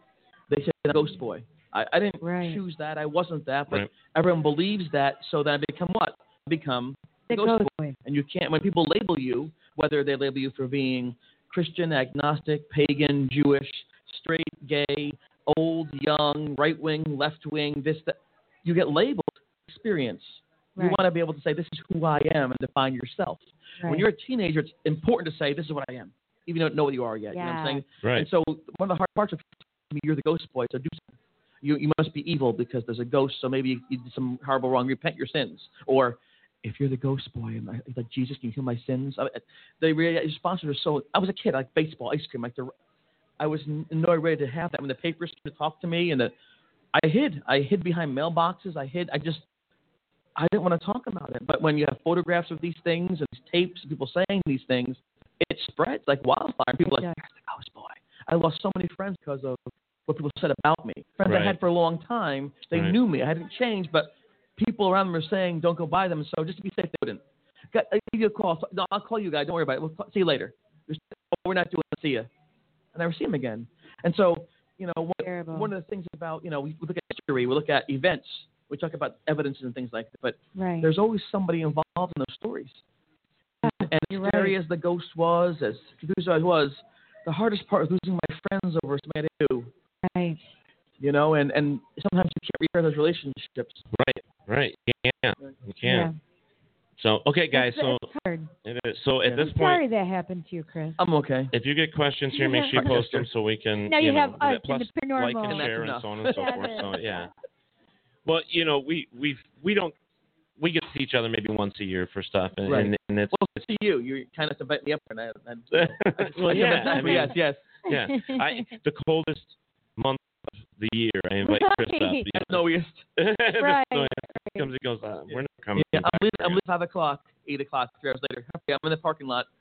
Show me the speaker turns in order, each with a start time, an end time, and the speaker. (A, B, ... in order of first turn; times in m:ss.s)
0:00.5-0:42.7 A
0:02.2-0:02.6 B
0:03.7-0:04.0 C
0:07.3-0:08.0 B
0:27.3-0:27.8 B
0:28.0-0:28.3 C
0:43.4-0:46.3 A
0:46.9-0:49.4 A
0:50.4-1:12.3 A
0:56.9-0:57.2 B
1:01.3-1:01.6 C
1:13.0-1:22.8 A
1:15.2-1:15.7 B
1:20.6-1:20.9 B
1:23.6-1:29.7 A
1:23.6-1:24.6 B
1:30.0-1:30.4 B
1:31.0-1:33.8 A
1:34.0-1:36.1 C
1:35.8-1:36.1 B
1:37.0-1:38.1 C
1:37.5-1:38.5 B
1:38.6-1:39.8 C
1:39.4-1:41.0 B
1:41.0-1:41.5 A
1:41.5-1:47.3 C
1:42.3-1:42.9 B
1:42.8-1:43.3 A
1:43.9-1:45.8 B
1:45.4-1:46.8 A
1:46.3-1:47.2 B
1:48.2-1:49.9 C
1:50.6-1:53.4 C
1:52.7-1:57.8 A
1:55.7-2:02.6 C
1:56.5-1:57.4 B
1:57.9-1:58.4 B
2:01.4-2:02.3 B
2:02.3-2:03.1 A
2:03.2-2:06.6 C
2:03.6-2:04.7 B
2:05.3-2:09.5 A